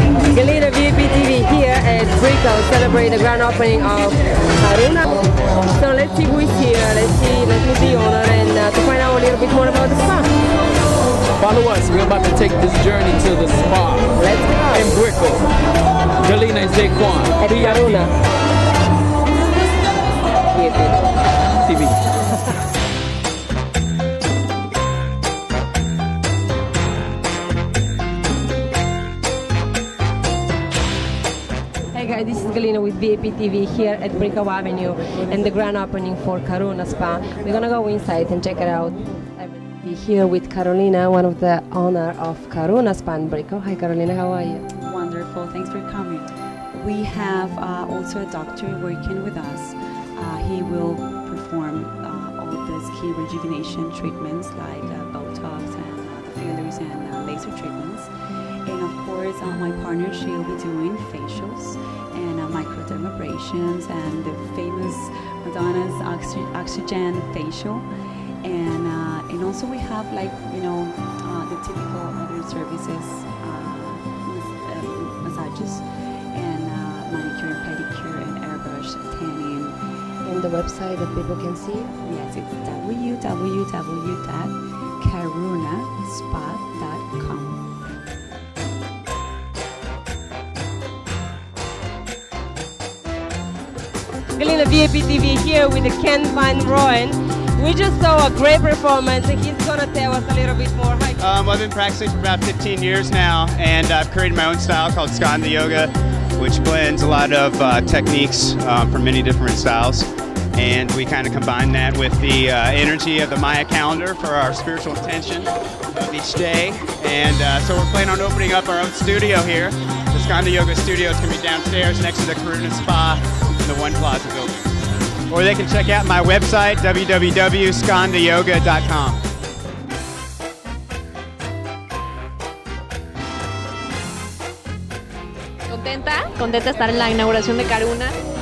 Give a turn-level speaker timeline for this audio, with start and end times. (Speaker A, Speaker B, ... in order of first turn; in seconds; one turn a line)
Speaker A: 0.3-10.3
Speaker B: 11.4-14.2
Speaker A: 14.2-14.9
Speaker B: 14.7-15.4
Speaker B: 16.2-18.1
Speaker A: 17.4-18.1
Speaker A: 20.5-21.0
Speaker B: 21.6-22.0
Speaker A: 31.9-44.6
Speaker C: 44.7-58.1
Speaker C: 58.6-67.9
Speaker C: 68.4-79.8
Speaker A: 80.2-81.9
Speaker C: 82.0-87.7
Speaker A: 94.4-101.2
Speaker D: 101.2-124.7
Speaker D: 125.3-129.2
Speaker E: 135.7-138.1